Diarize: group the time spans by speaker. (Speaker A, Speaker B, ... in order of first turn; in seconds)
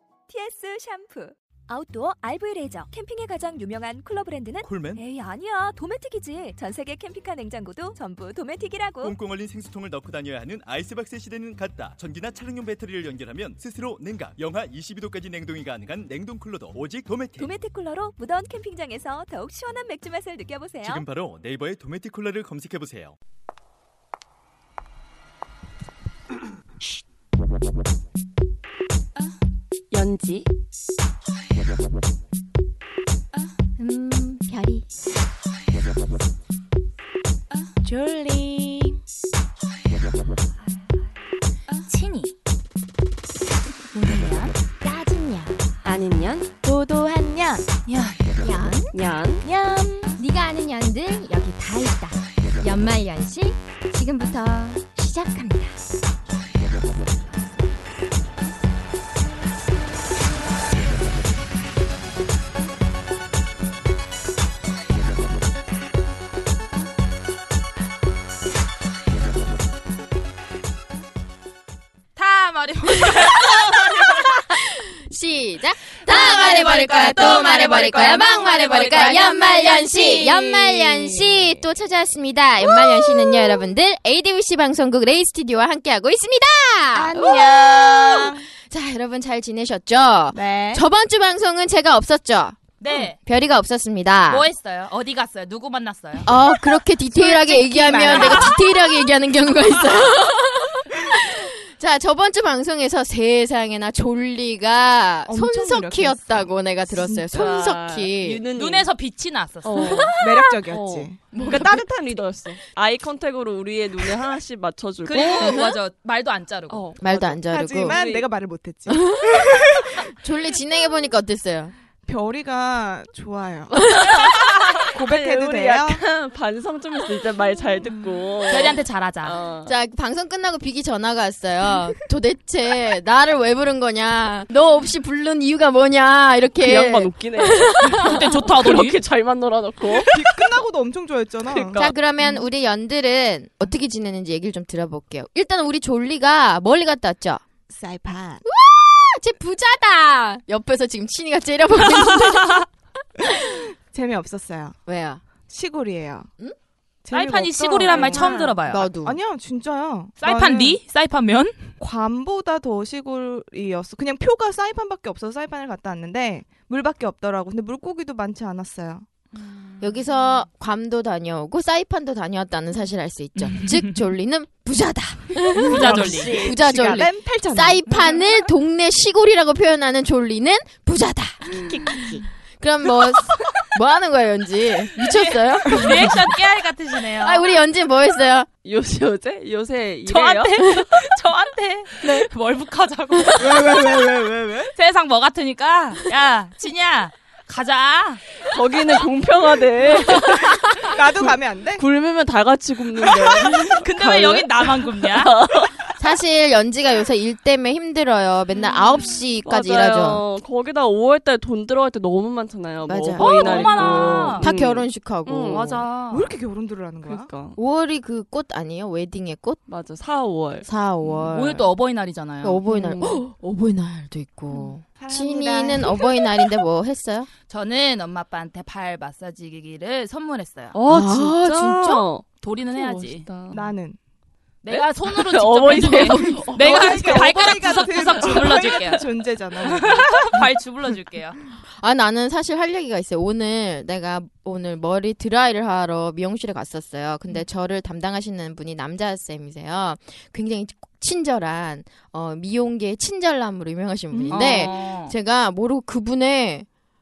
Speaker A: 0.3-9.2, 17.4-21.0
Speaker B: 4.6-5.0, 9.0-17.6, 20.8-23.2
Speaker C: 29.9-30.5, 45.8-46.5, 48.9-49.5, 107.3-108.9, 109.6-115.6, 116.7-118.3, 124.3-129.7, 136.6-140.1, 141.5-141.9, 157.9-158.5, 176.0-176.5, 188.6-190.9, 198.5-205.8, 209.4-215.6, 217.0-217.6, 219.7-220.7, 230.7-233.6, 234.7-237.5, 238.1-238.9
Speaker D: 33.8-34.8, 44.8-45.7, 46.6-47.7, 48.4-55.8, 73.1-73.4, 74.1-94.4, 96.2-108.4, 109.8-110.4, 111.3-111.8, 115.4-115.8, 117.0-118.0, 118.9-121.7, 123.9-124.3, 129.6-138.4, 141.8-147.4, 148.4-152.7, 153.2-153.6, 154.8-155.2, 158.7-159.2, 169.8-186.2, 187.2-188.5, 206.0-210.2, 212.9-215.8, 217.6-219.6, 220.6-221.7, 222.4-227.3, 230.9-232.0, 235.8-236.5, 241.7-256.7
Speaker E: 37.8-39.0, 76.3-81.4, 86.9-88.5, 90.3-90.8, 97.1-98.6, 105.3-107.6, 110.1-111.2, 117.5-120.0, 122.0-123.8, 124.8-126.0, 127.8-128.1, 140.0-142.4, 147.7-148.4, 153.2-154.8, 155.5-156.3, 157.0-158.5, 159.0-160.8, 161.8-169.1, 175.5-178.2, 181.7-182.2, 193.3-194.7, 200.7-201.8, 203.1-203.7, 216.1-217.3, 224.6-226.1, 233.5-234.0, 236.5-240.4, 254.1-254.7
Speaker F: 41.7-42.3, 43.9-44.5, 47.9-48.2, 72.2-74.1, 76.1-80.1, 92.8-93.2, 94.3-96.3, 108.5-110.1, 115.0-116.8, 128.5-129.4, 137.9-139.0, 152.0-152.6, 157.1-158.9, 160.2-161.7, 173.4-174.0, 175.7-176.3, 185.0-187.5, 190.1-194.0, 194.7-198.2, 203.7-205.3, 213.2-214.5, 215.5-216.3, 221.3-222.6, 227.5-230.7, 232.4-233.6, 234.6-239.1, 239.7-241.4, 254.3-255.1